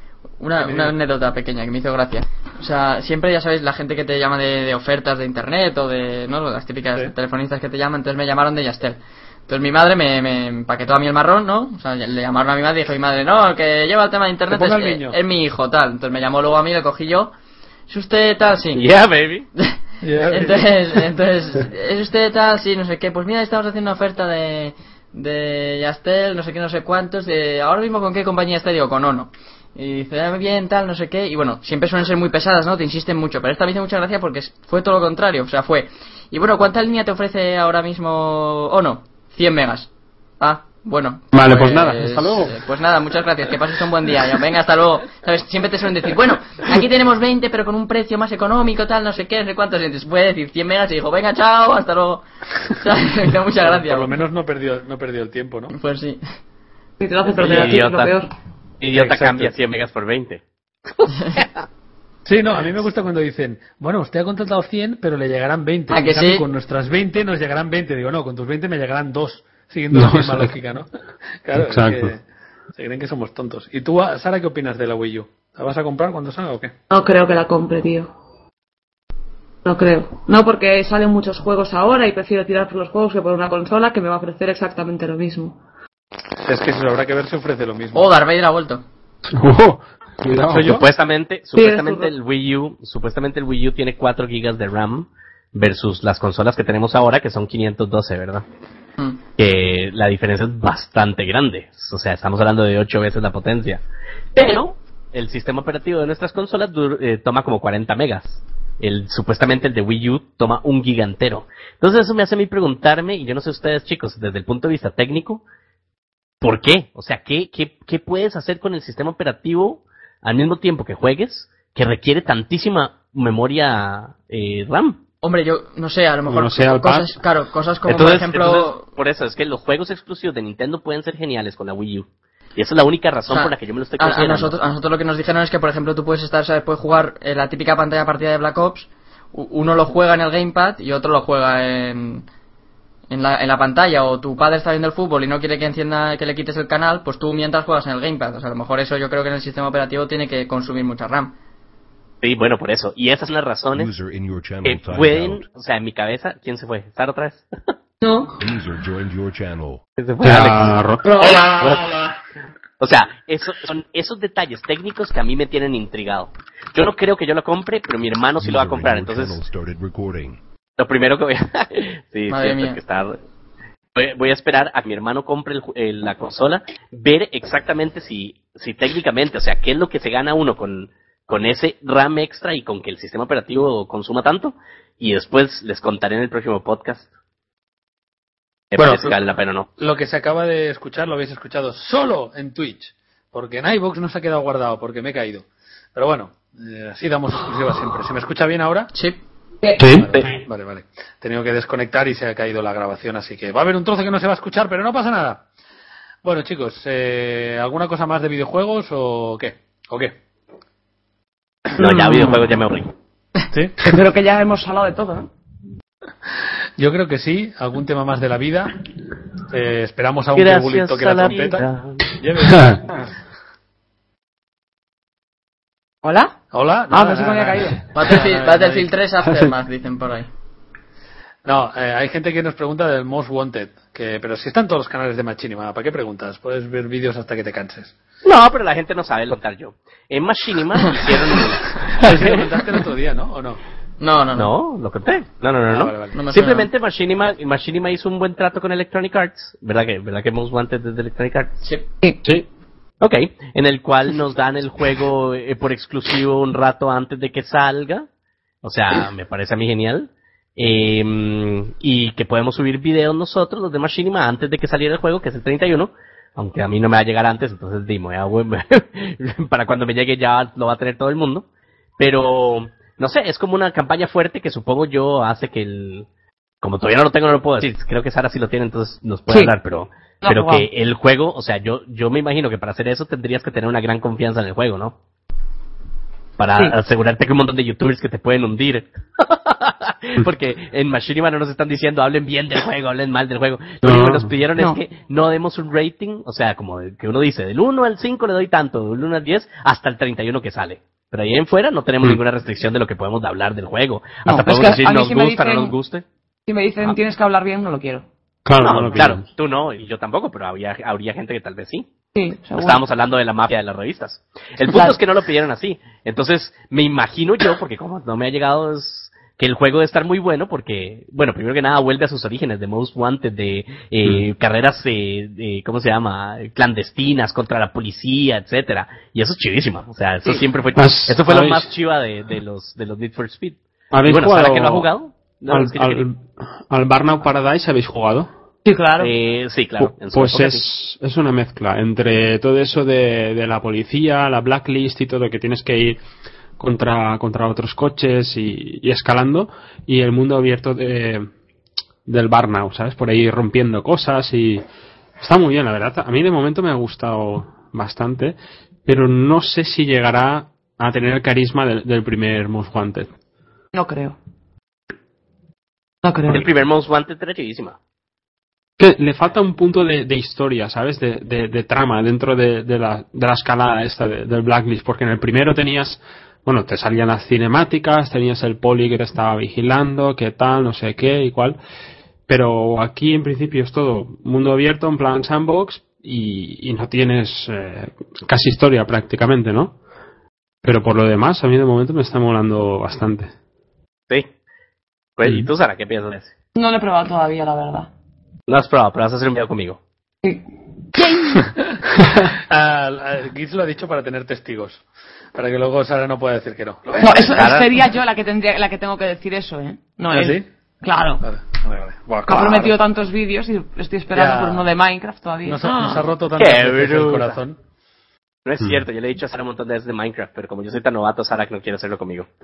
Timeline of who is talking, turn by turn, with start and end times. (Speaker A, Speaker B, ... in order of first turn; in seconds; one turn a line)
Speaker A: 0.4-17.3
Speaker B: 0.6-0.9
Speaker B: 14.5-15.2
Speaker A: 17.9-18.9
Speaker C: 18.7-19.5
Speaker B: 20.0-20.7
Speaker A: 20.3-39.9
Speaker A: 40.4-54.2
Speaker D: 41.3-42.6
Speaker B: 53.6-55.7
Speaker A: 55.7-56.2
Speaker E: 57.0-58.3
Speaker C: 57.3-58.1
Speaker C: 58.8-60.4
Speaker B: 58.9-59.5
Speaker C: 61.0-61.4
Speaker B: 62.2-70.9
Speaker A: 65.9-66.5
Speaker D: 69.9-70.5
Speaker B: 71.4-72.2
Speaker D: 71.6-72.1
Speaker B: 72.7-76.7
Speaker E: 76.9-78.1
Speaker E: 79.6-85.6
Speaker B: 86.4-88.1
Speaker A: 87.9-88.8
Speaker D: 89.3-90.8
Speaker C: 90.5-98.4
Speaker E: 91.5-92.1
Speaker C: 99.4-103.8
Speaker C: 104.3-115.4
Speaker C: 116.4-125.0
Speaker A: 125.2-128.8
Speaker D: 126.3-127.2
Speaker C: 127.9-134.5
Speaker A: 133.3-142.2
Speaker A: 143.1-151.3
Speaker C: 152.2-153.9
Speaker F: 153.7-155.4
Speaker C: 154.6-157.4
Speaker E: 158.0-158.3
Speaker F: 158.4-159.8
Speaker C: 160.0-160.8
Speaker D: 160.2-161.8
Speaker E: 161.0-161.7
Speaker C: 162.8-169.4
Speaker F: 168.4-170.4
Speaker C: 170.8-173.2
Speaker A: 172.3-172.8
Speaker C: 173.9-187.1
Speaker C: 188.7-189.7
Speaker B: 188.8-189.2
Speaker B: 189.8-198.9
Speaker D: 199.8-200.1
Speaker B: 199.9-205.4
Speaker B: 206.2-210.1
Speaker C: 211.8-212.9
Speaker B: 213.5-213.8
Speaker E: 213.8-215.3
Speaker B: 216.8-218.8
Speaker B: 219.5-223.1
Speaker C: 220.3-222.1
Speaker E: 226.0-226.3
Speaker B: 226.5-228.8
Speaker E: 226.9-228.2
Speaker A: 227.9-230.3
Speaker B: 231.4-237.9
Speaker C: 238.2-242.5
Speaker B: 241.9-243.6
Speaker A: 244.0-244.5
Speaker C: 244.3-251.5
Speaker B: 245.7-246.1
Speaker A: 246.1-246.7
Speaker C: 253.0-258.1
Speaker C: 258.6-271.4
Speaker C: 272.0-276.1
Speaker C: 276.6-284.9
Speaker E: 280.2-280.7
Speaker C: 286.4-306.0
Speaker D: 293.8-294.3
Speaker E: 304.2-305.8
Speaker E: 306.5-308.1
Speaker D: 308.4-309.2
Speaker C: 308.6-311.9
Speaker E: 312.1-312.8
Speaker C: 312.6-336.1
Speaker E: 314.7-315.0
Speaker D: 330.8-331.7
Speaker D: 333.9-334.9
Speaker D: 335.5-338.3
Speaker E: 338.6-339.1
Speaker C: 339.0-340.6
Speaker D: 339.8-346.0
Speaker D: 346.6-351.3
Speaker D: 352.1-354.6
Speaker D: 355.2-363.1
Speaker E: 363.7-364.2
Speaker E: 366.0-366.5
Speaker C: 366.3-367.8
Speaker D: 368.8-381.6
Speaker D: 382.3-389.8
Speaker D: 390.6-393.3
Speaker C: 395.2-396.3
Speaker D: 395.2-395.5
Speaker E: 396.5-397.9
Speaker C: 398.5-399.8
Speaker E: 400.2-401.5
Speaker B: 402.2-404.8
Speaker B: 405.3-407.5
Speaker E: 407.0-411.2
Speaker C: 407.3-407.7
Speaker B: 410.1-410.4
Speaker B: 411.2-412.8
Speaker E: 412.2-416.1
Speaker B: 414.1-414.7
Speaker B: 415.4-417.6
Speaker C: 416.4-417.4
Speaker C: 418.4-422.3